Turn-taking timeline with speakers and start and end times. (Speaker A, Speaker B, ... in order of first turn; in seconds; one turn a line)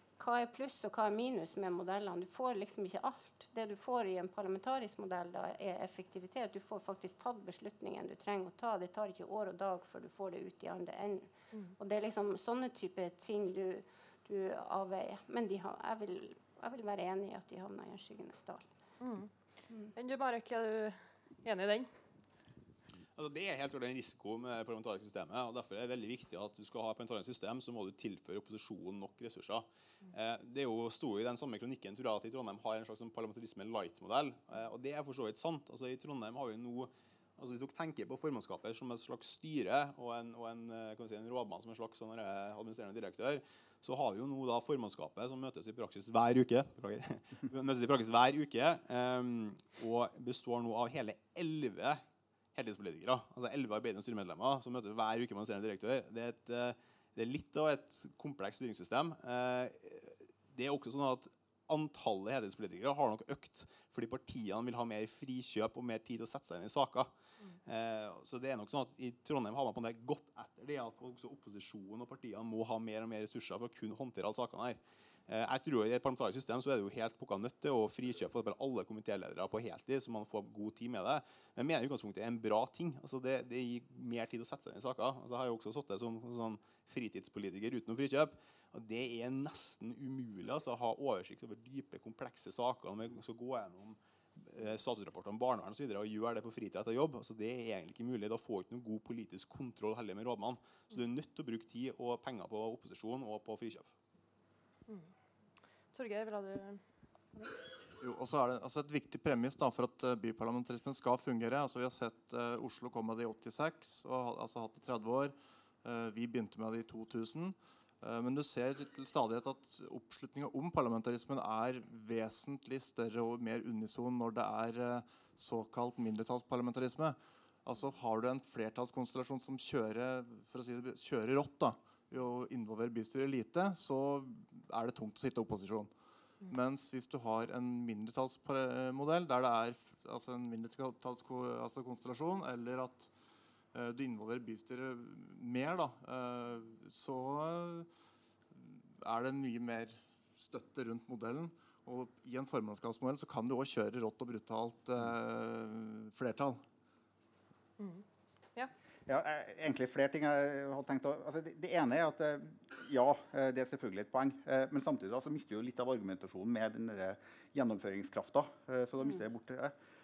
Speaker A: 0.2-18.7
Speaker B: 19.0-19.3
Speaker B: 19.9-21.9
Speaker C: 23.1-52.0
Speaker C: 52.5-67.1
Speaker C: 67.7-103.9
Speaker B: 105.9-106.8
Speaker D: 108.0-135.9
Speaker D: 136.4-143.1
Speaker D: 143.7-147.9
Speaker D: 148.5-156.6
Speaker B: 157.8-158.0
Speaker E: 159.1-169.7